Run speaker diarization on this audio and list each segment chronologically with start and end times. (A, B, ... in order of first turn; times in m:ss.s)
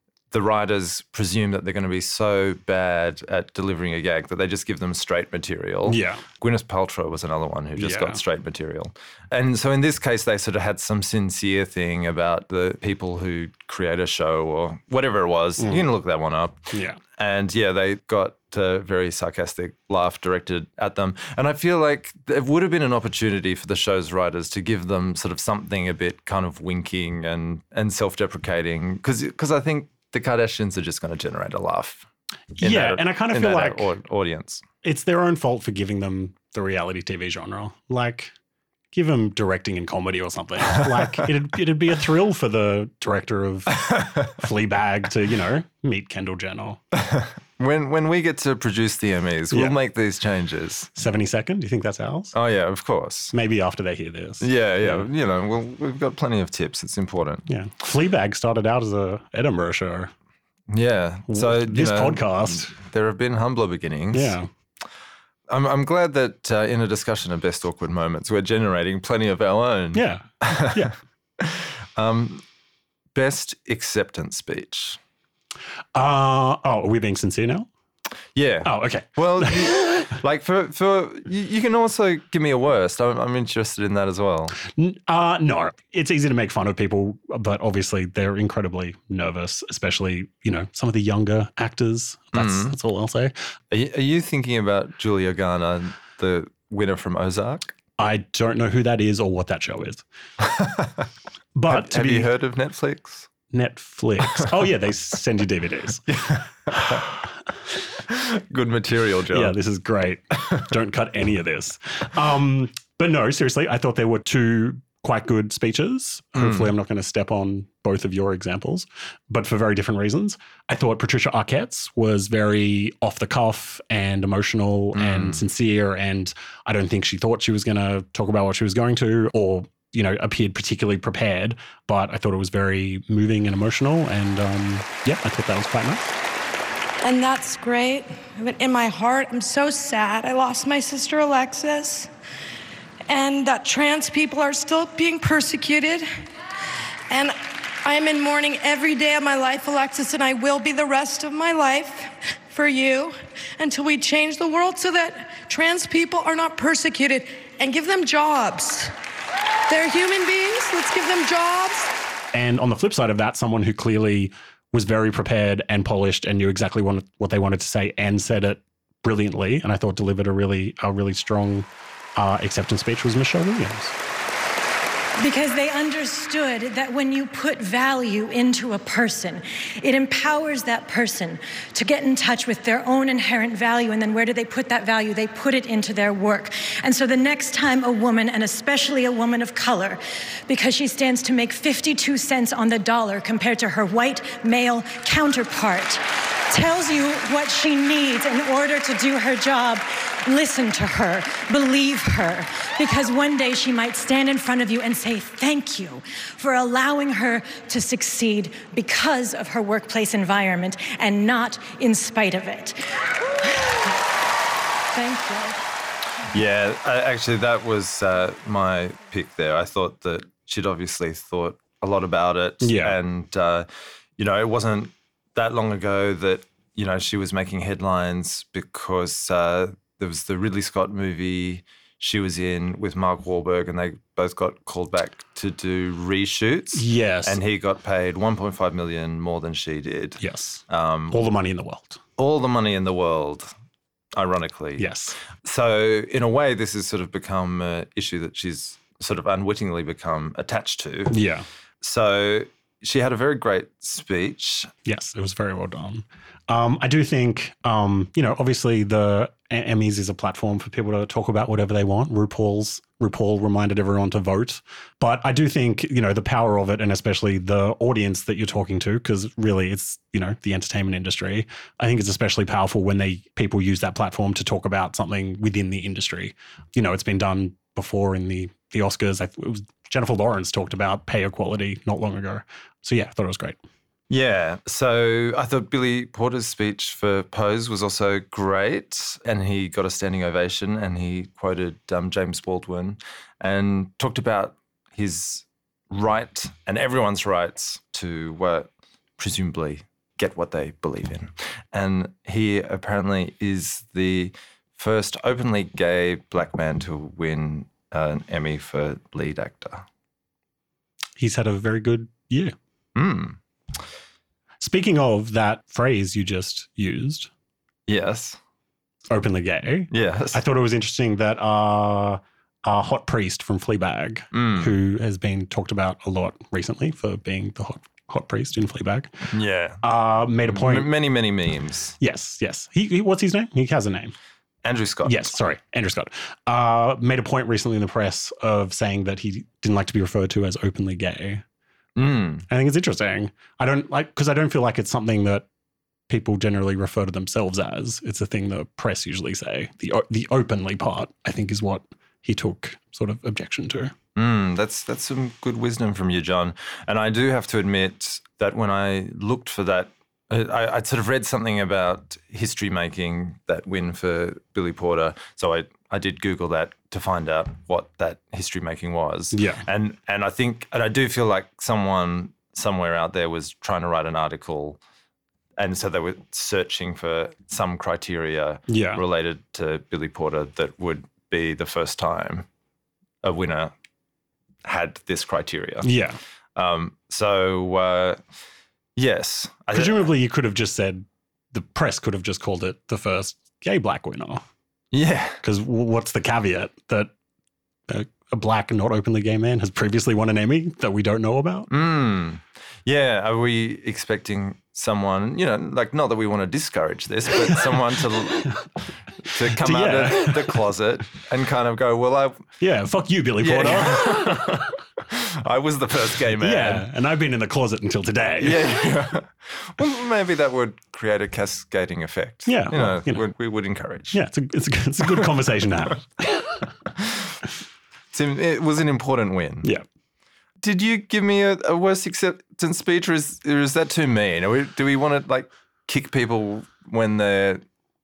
0:00.3-0:32.1 A
0:05.9-0:06.2 B
0:07.8-0:08.2 B
0:15.6-0:15.8 B
0:16.7-0:17.0 B
0:32.6-0:33.9 B
0:32.6-0:34.6 A
0:34.8-0:38.3 B
0:38.9-0:46.8 B
0:46.9-0:50.9 A
0:51.0-0:52.3 B
0:52.3-0:53.3 A
0:53.3-0:55.1 B
0:54.4-0:57.5 A
0:57.5-1:00.1 B
1:00.7-1:04.4 A
1:01.3-1:02.7 B
1:04.1-1:04.5 B
1:05.5-1:12.4 A
1:09.9-1:11.0 B
1:13.1-1:15.0 A
1:16.0-1:17.7 B
1:18.4-1:24.6 A
1:18.6-1:19.9 B
1:24.6-1:33.3 B
1:32.3-1:32.7 A
1:33.7-1:37.7 A
1:38.0-1:40.0 B
1:40.4-1:41.0 A
1:41.6-1:42.3 B
1:41.7-1:43.3 A
1:43.5-1:46.1 B
1:46.1-1:47.1 A
1:46.8-1:47.0 B
1:48.1-1:49.6 A
1:49.3-2:16.1 B
1:56.4-1:56.7 A
2:04.9-2:05.5 A
2:17.0-2:22.1 C
2:23.1-2:26.1 C
2:27.1-2:38.9 C
2:39.7-2:41.9 C
2:42.3-2:54.0 B
2:55.2-3:32.8 D
3:33.4-3:33.9 D
3:34.9-3:35.6 D
3:36.3-3:43.7 A
3:42.6-3:43.0 B
3:44.2-4:01.3 A
3:56.7-3:57.4 B
4:00.2-4:02.0 B
4:02.2-4:03.5 A
4:04.2-4:11.2 A
4:04.8-4:05.2 B
4:11.1-4:11.5 B
4:11.8-4:14.7 A
4:14.8-4:43.6 B
4:44.1-5:09.8 A
5:11.2-5:12.5 B
5:13.0-5:13.4 A
5:14.6-5:17.3 B
5:17.9-5:18.4 A
5:19.1-5:29.3 B
5:19.9-5:20.4 A
5:24.3-5:24.7 A
5:29.3-5:29.8 A
5:29.8-5:30.9 B
5:30.5-5:32.0 A
5:32.0-5:34.2 B
5:34.6-5:35.3 A
5:35.0-5:41.4 B
5:42.0-5:42.5 A
5:42.5-5:45.5 B
5:46.1-5:53.9 B
5:54.2-6:14.8 A
6:09.3-6:09.6 B
6:15.6-6:22.5 A
6:18.7-6:19.0 B
6:23.2-6:23.7 A
6:24.6-6:25.9 A
6:25.8-6:26.2 B
6:26.6-6:28.2 A
6:29.0-6:30.1 A
6:29.7-6:34.4 B
6:34.9-6:35.4 A
6:35.4-6:37.1 B
6:37.9-6:41.7 B
6:41.7-6:48.6 A
6:49.2-6:52.5 A
6:49.3-6:50.6 B
6:52.6-6:54.7 B
6:53.4-6:56.8 A
6:56.4-6:58.9 B
6:58.4-7:04.2 A
7:02.5-7:03.2 B
7:04.1-7:06.5 B
7:07.0-7:07.2 A
7:08.1-7:09.7 A
7:10.6-7:17.6 A